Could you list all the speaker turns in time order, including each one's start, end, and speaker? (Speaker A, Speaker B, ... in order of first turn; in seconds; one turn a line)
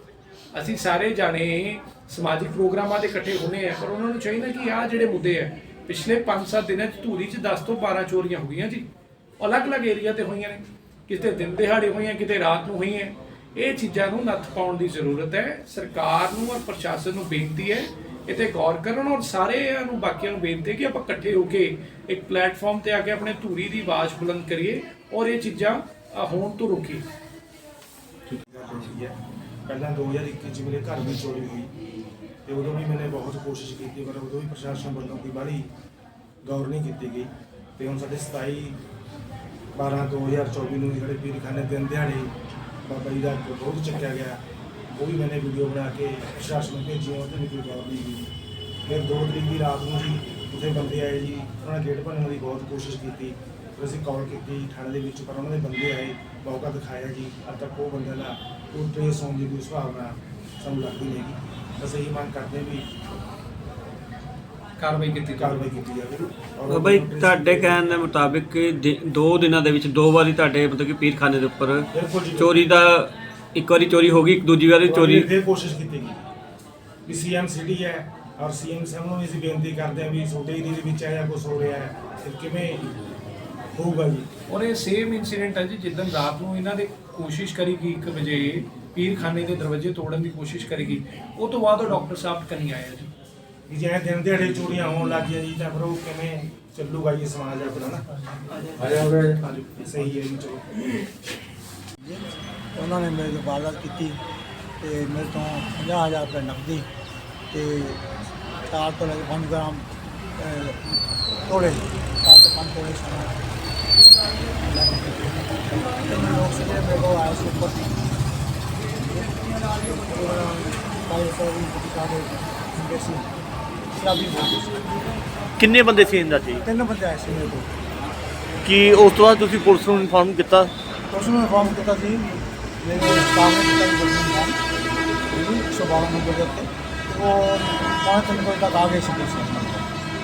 Speaker A: 0.5-8.8
Speaker A: 9.4-27.1
Speaker B: 28.4-29.1
Speaker B: 29.7-31.7
Speaker B: 32.5-35.7
Speaker B: 36.4-38.8
Speaker B: 39.7-42.3
Speaker B: 42.8-48.3
Speaker B: 48.9-62.9
Speaker A: 64.8-65.7
Speaker B: 65.4-67.8
Speaker C: 66.7-75.3
Speaker B: 71.9-72.6
Speaker B: 74.8-76.3
Speaker B: 77.0-82.9
Speaker B: 83.7-84.3
Speaker A: 84.5-93.1
Speaker B: 93.7-98.0
Speaker B: 98.9-100.7
Speaker D: 102.0-104.2
Speaker D: 104.8-106.9
Speaker D: 107.5-108.0
Speaker D: 108.7-111.0
Speaker D: 111.5-113.3
Speaker D: 114.6-117.9
Speaker D: 119.0-123.3
Speaker D: 123.9-124.8
Speaker E: 125.6-126.6
Speaker D: 126.6-127.8
Speaker E: 128.6-130.7
Speaker D: 131.1-134.6
Speaker D: 135.3-139.9